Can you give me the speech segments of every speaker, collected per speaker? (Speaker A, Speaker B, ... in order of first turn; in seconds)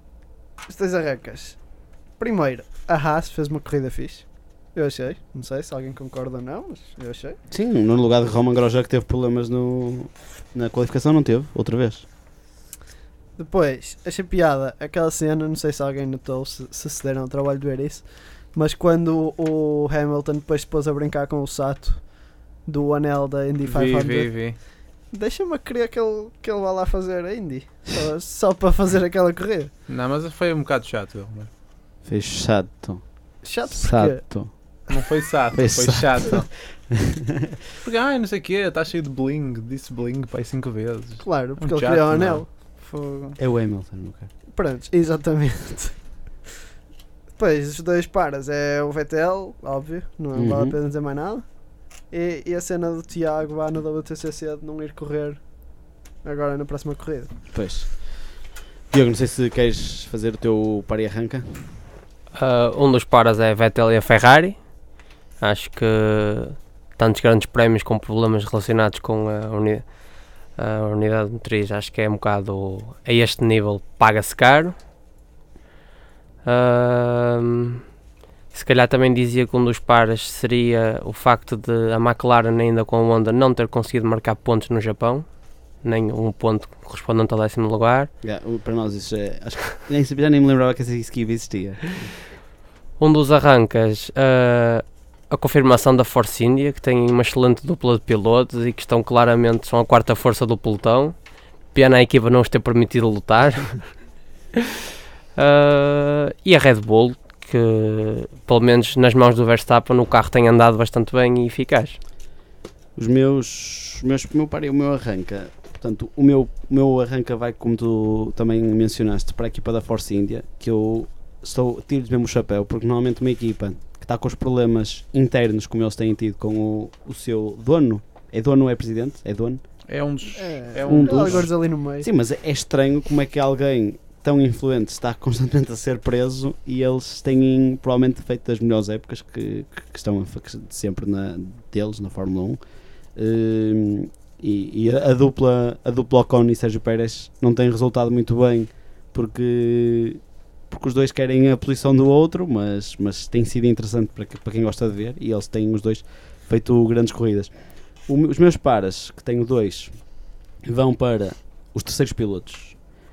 Speaker A: 0.7-7.4, 13.4-29.7, 33.4-34.2, 41.2-42.5, 44.5-46.0, 47.4-57.3, 130.4-132.1
Speaker B: 7.5-12.0, 32.0-34.5, 35.5-37.5, 43.4-44.3, 50.3-50.8, 57.5-61.7, 88.2-91.9, 113.0-129.6, 130.8-142.6, 143.1-162.8
Speaker C: 23.6-24.6, 29.9-31.5, 34.9-36.5, 37.8-43.4, 129.9-131.5
Speaker D: 62.4-64.6, 65.4-69.9, 70.5-74.7, 76.4-77.8, 78.5-88.1, 93.0-101.1, 101.7-103.9, 105.3-112.0